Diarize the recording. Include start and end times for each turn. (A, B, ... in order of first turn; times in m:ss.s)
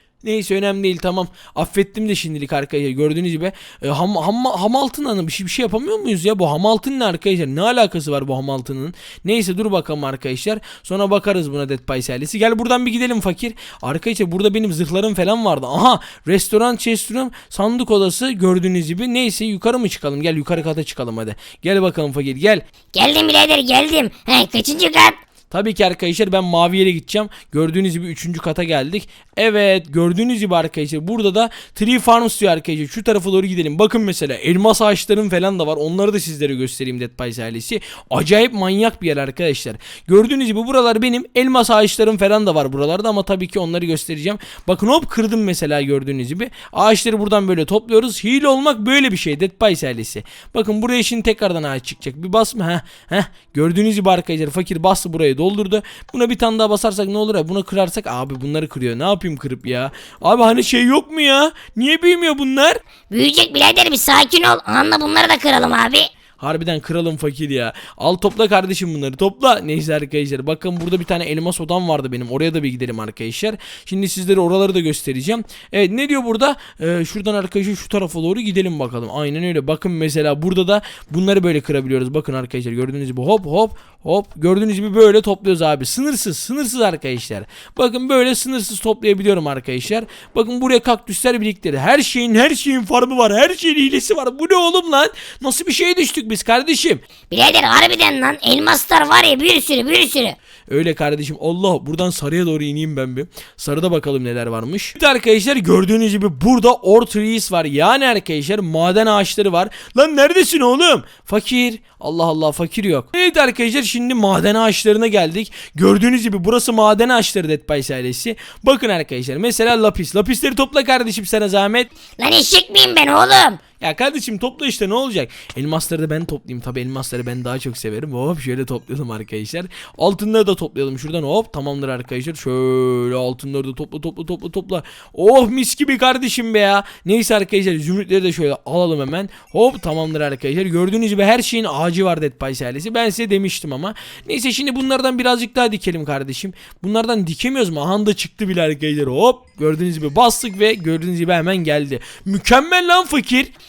0:00.2-0:22.6 A
0:22.9-0:25.1 B
0:25.5-1:02.8 A
1:03.1-1:06.1 B
1:06.4-1:37.0 A
1:37.3-1:40.4 B
1:40.7-2:01.9 A
2:02.2-2:03.6 B
2:03.8-2:33.5 A